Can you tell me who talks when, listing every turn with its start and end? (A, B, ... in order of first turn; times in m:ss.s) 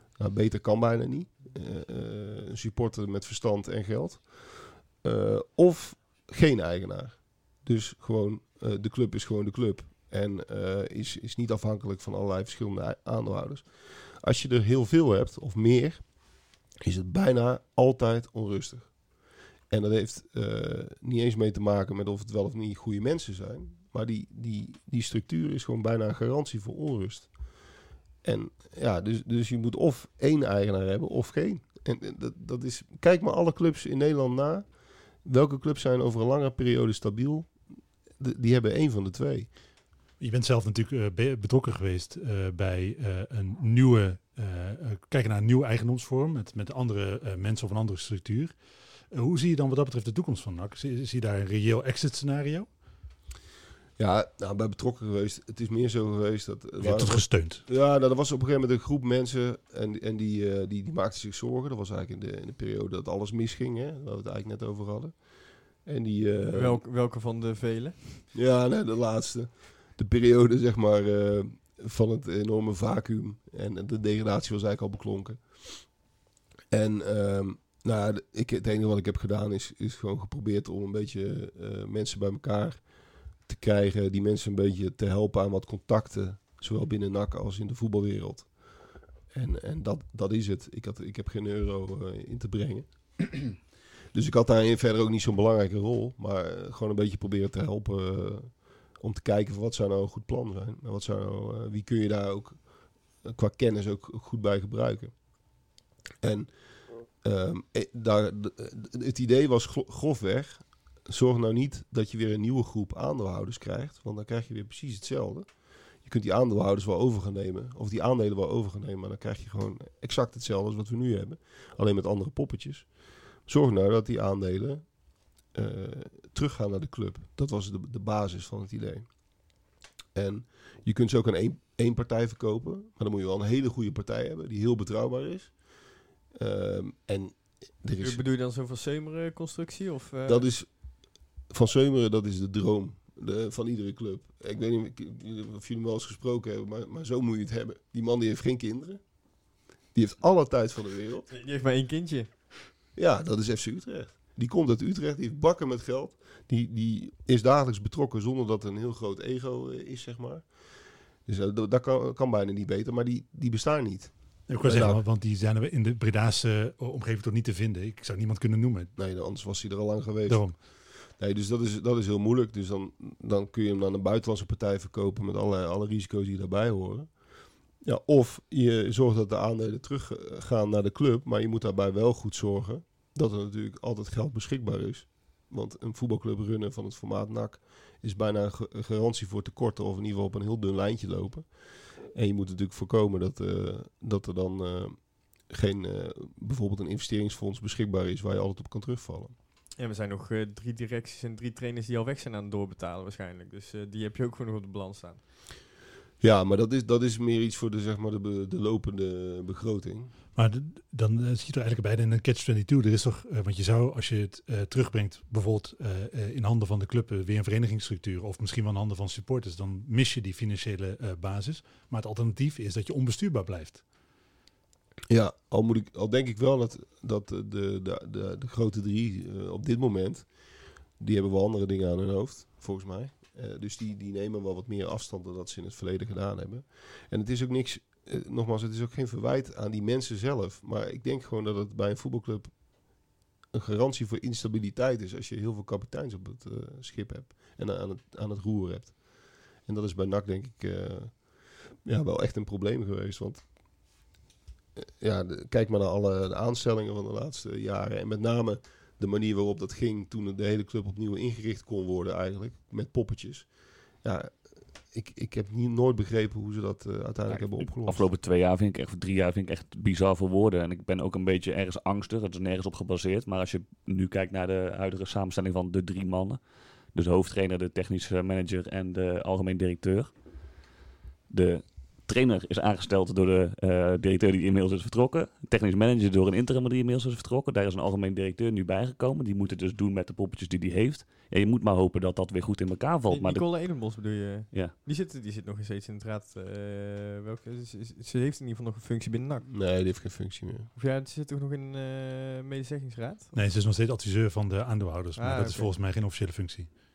0:00.2-0:04.5 A
0:05.0-0:13.6 A
0:14.2-0:16.0 A
0:16.8-0:18.9 A
0:19.7-0:27.3 A
0:28.2-0:34.7 A
0:35.2-0:37.5 A
0:38.2-0:39.5 A
0:40.2-0:48.6 B
0:49.1-0:52.7 B
0:54.0-1:05.2 A
0:56.8-0:57.6 B
1:05.8-1:06.8 A
1:06.5-1:08.2 C
1:08.3-1:15.6 A
1:16.7-1:22.8 A
1:23.4-1:28.5 A
1:29.3-1:33.6 A
1:34.1-1:42.6 A
1:43.2-1:45.1 A
1:46.2-1:46.5 A
1:47.2-1:55.5 A
1:56.0-2:02.9 A
2:03.4-2:04.8 A
2:05.5-2:09.1 A
2:10.1-2:15.6 A
2:16.3-2:18.2 A
2:18.0-2:20.4 C
2:20.2-2:20.7 A
2:21.5-2:29.0 A
2:29.9-2:31.3 A
2:31.3-2:32.3 C
2:33.0-2:40.5 A
2:41.2-2:45.0 A
2:44.5-2:48.9 B
2:49.0-2:57.1 A
2:50.3-2:50.5 B
2:57.8-3:11.5 A
3:12.0-3:19.3 A
3:19.8-3:25.2 C
3:26.2-3:30.1 A
3:30.3-3:43.8 B
3:45.1-3:50.3 A
3:51.0-4:02.5 A
4:03.5-4:09.0 A
4:09.6-4:11.3 A
4:11.8-4:13.4 A
4:14.8-4:23.5 A
4:24.0-4:28.0 A
4:27.3-4:36.4 D
4:36.9-4:40.1 D
4:41.3-4:53.5 D
4:53.1-4:59.5 C
4:59.5-5:00.7 A
5:00.7-5:03.3 C
5:03.3-5:06.7 B
5:05.2-5:05.7 C